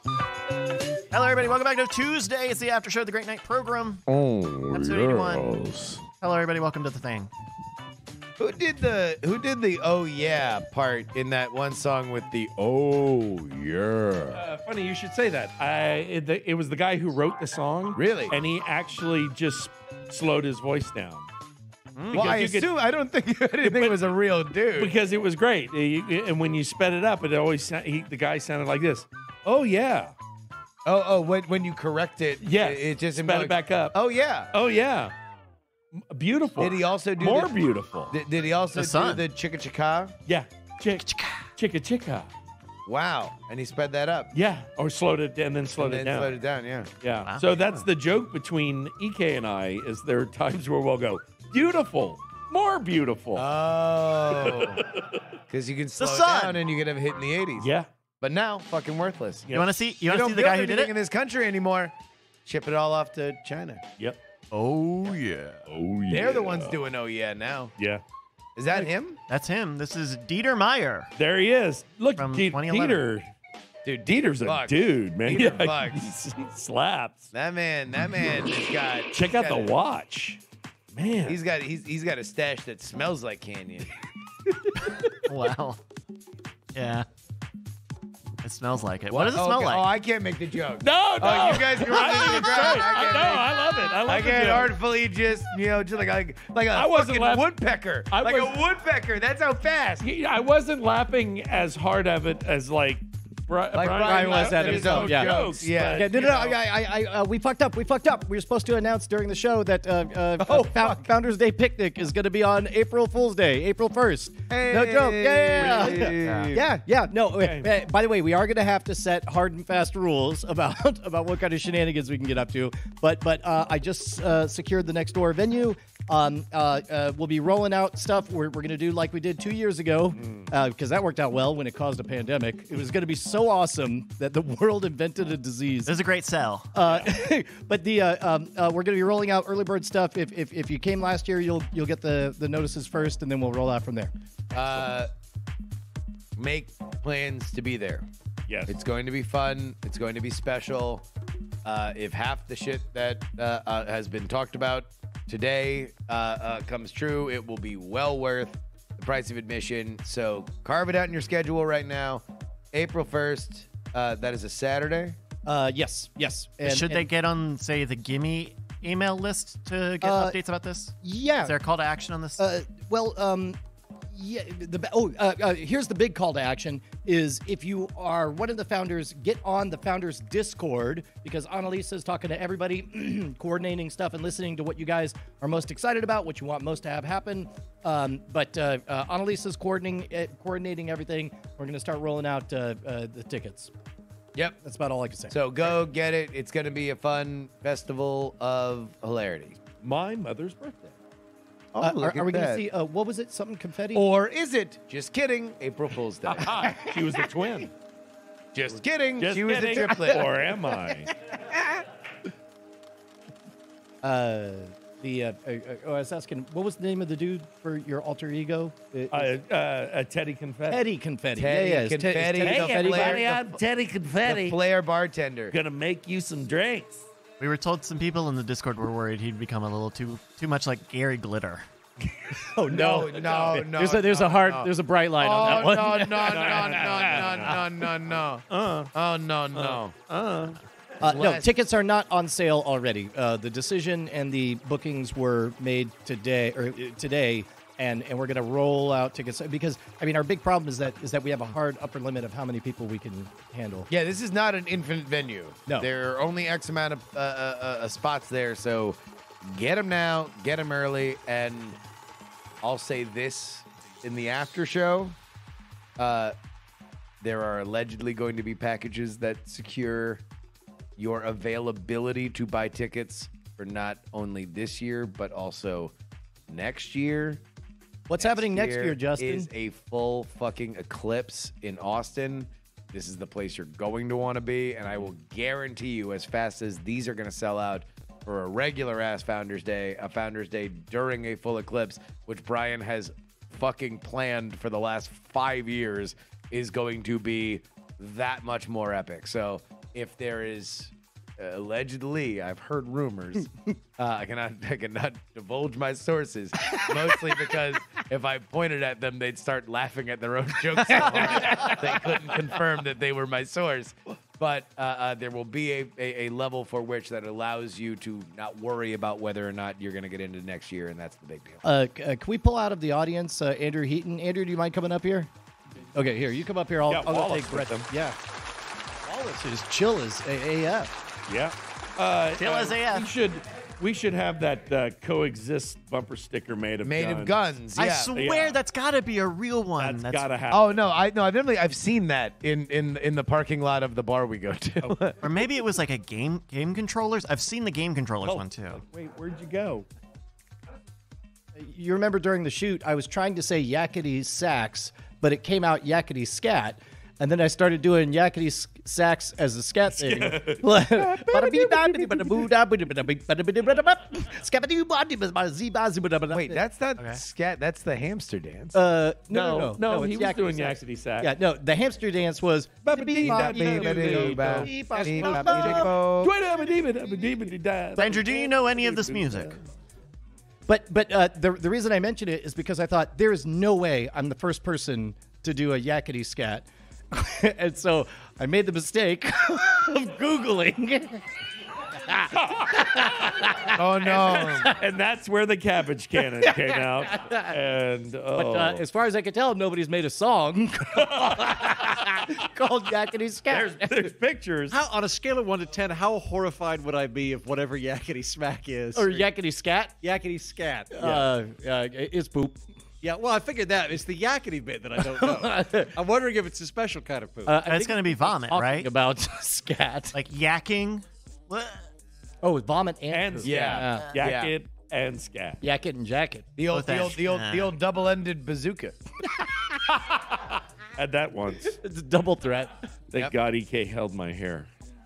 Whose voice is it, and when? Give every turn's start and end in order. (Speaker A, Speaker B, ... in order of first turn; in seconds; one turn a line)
Speaker A: 1.1-4.0
Speaker B: 4.1-6.0
Speaker A: 4.7-5.5
Speaker A: 6.2-7.3
Speaker B: 8.4-14.4
Speaker C: 14.3-21.3
Speaker B: 17.9-18.4
Speaker A: 21.9-22.3
Speaker C: 22.1-22.7
Speaker B: 22.1-24.9
Speaker C: 24.8-30.1
Speaker B: 30.9-34.5
Speaker C: 32.4-34.0
Speaker C: 34.5-35.1
Speaker C: 35.9-38.1
Speaker B: 36.6-37.5
Speaker B: 38.1-40.1
Speaker A: 38.8-39.2
Speaker C: 40.3-41.1
Speaker A: 40.9-41.5
Speaker C: 41.6-42.3
Speaker B: 42.9-44.3
Speaker C: 44.3-46.3
Speaker B: 45.7-46.9
Speaker C: 47.0-53.5
Speaker A: 47.2-47.7
Speaker B: 53.4-54.8
Speaker C: 54.3-55.2
Speaker B: 55.5-57.7
Speaker A: 56.0-56.6
Speaker C: 57.6-57.9
Speaker B: 58.2-59.5
Speaker C: 59.5-59.7
Speaker A: 59.5-60.9
Speaker B: 60.1-61.9
Speaker B: 62.5-63.9
Speaker A: 64.5-65.7
Speaker C: 65.7-66.8
Speaker B: 66.1-67.7
Speaker C: 67.8-68.0
Speaker B: 68.6-69.2
Speaker A: 69.3-71.1
Speaker C: 71.2-73.3
Speaker A: 72.2-73.0
Speaker B: 73.8-76.1
Speaker C: 74.1-77.3
Speaker B: 77.3-79.7
Speaker C: 79.1-80.4
Speaker C: 80.9-81.4
Speaker B: 81.3-83.9
Speaker C: 84.6-85.3
Speaker A: 85.3-85.8
Speaker A: 86.7-87.1
Speaker A: 88.4-89.8
Speaker B: 89.1-93.5
Speaker C: 90.8-94.7
Speaker B: 94.0-100.1
Speaker C: 96.7-97.5
Speaker C: 98.1-98.6
Speaker C: 100.0-106.6
Speaker B: 103.7-106.2
Speaker D: 104.0-135.9
Speaker B: 110.4-111.1
Speaker B: 114.5-116.7
Speaker C: 115.8-116.1
Speaker A: 116.2-116.5
Speaker C: 117.4-117.8
Speaker C: 130.2-130.5
Speaker A: 135.8-137.1
Speaker D: 136.7-144.1
Speaker B: 144.5-145.1
Speaker B: 146.4-148.1
Speaker C: 148.5-148.7
Speaker B: 148.7-151.1
Speaker B: 151.7-165.2
Speaker D: 165.5-167.1
Speaker A: 166.6-172.4
Speaker D: 170.0-170.4
Speaker D: 171.0-171.6
Speaker D: 172.4-173.6
Speaker D: 174.1-193.7
Speaker D: 194.6-195.4
Speaker B: 195.3-199.6
Speaker C: 199.6-201.0
Speaker B: 201.7-202.6
Speaker D: 201.8-204.1
Speaker B: 203.9-206.8
Speaker C: 206.3-207.7
Speaker B: 208.5-210.3
Speaker C: 209.2-211.1
Speaker D: 214.0-219.3
Speaker C: 219.1-220.8
Speaker D: 220.7-223.6
Speaker B: 221.4-223.2
Speaker C: 222.4-224.6
Speaker B: 224.2-225.6
Speaker C: 225.5-227.1
Speaker A: 227.4-231.7
Speaker D: 232.3-237.6
Speaker B: 232.7-240.0
Speaker C: 235.4-237.8
Speaker C: 238.5-238.9
Speaker C: 239.6-240.6
Speaker B: 241.0-241.5
Speaker D: 241.0-253.9
Speaker B: 253.9-261.8
Speaker B: 262.6-265.2
Speaker B: 266.0-266.4
Speaker B: 267.2-270.2
Speaker B: 271.0-275.9
Speaker B: 276.5-277.4
Speaker D: 278.1-279.5
Speaker B: 278.2-321.6
Speaker D: 310.9-311.8
Speaker D: 321.6-325.3
Speaker D: 325.9-328.2
Speaker C: 326.9-327.9
Speaker D: 329.1-330.9
Speaker C: 331.3-337.4
Speaker A: 332.4-333.1
Speaker B: 336.8-338.1
Speaker A: 337.8-340.3
Speaker C: 338.1-338.6
Speaker C: 339.8-340.7
Speaker B: 340.5-345.2
Speaker A: 345.2-348.8
Speaker C: 348.2-349.9
Speaker D: 351.6-366.6
Speaker C: 359.9-362.4
Speaker B: 366.3-368.9
Speaker D: 368.7-376.0
Speaker C: 369.3-371.3
Speaker C: 372.9-374.7
Speaker B: 373.2-376.4
Speaker E: 374.9-375.9
Speaker C: 375.4-379.5
Speaker A: 378.0-379.6
Speaker D: 380.7-391.3
Speaker D: 392.0-394.8
Speaker C: 392.5-393.4
Speaker B: 393.7-394.7
Speaker C: 394.3-398.8
Speaker D: 396.2-397.6
Speaker D: 398.4-404.1
Speaker C: 401.0-402.3
Speaker C: 403.5-404.8
Speaker E: 404.7-409.3
Speaker D: 408.9-409.9
Speaker E: 410.0-410.9
Speaker D: 410.9-412.6
Speaker C: 411.0-411.3
Speaker E: 413.0-417.6
Speaker D: 415.0-415.9
Speaker D: 417.5-420.2
Speaker A: 417.6-418.9
Speaker A: 420.1-421.9
Speaker D: 422.4-424.1
Speaker C: 423.1-425.6
Speaker B: 423.4-424.5
Speaker D: 425.6-426.5
Speaker B: 426.6-429.0
Speaker A: 426.7-427.8
Speaker C: 431.0-431.8
Speaker D: 431.7-432.7
Speaker C: 433.1-434.7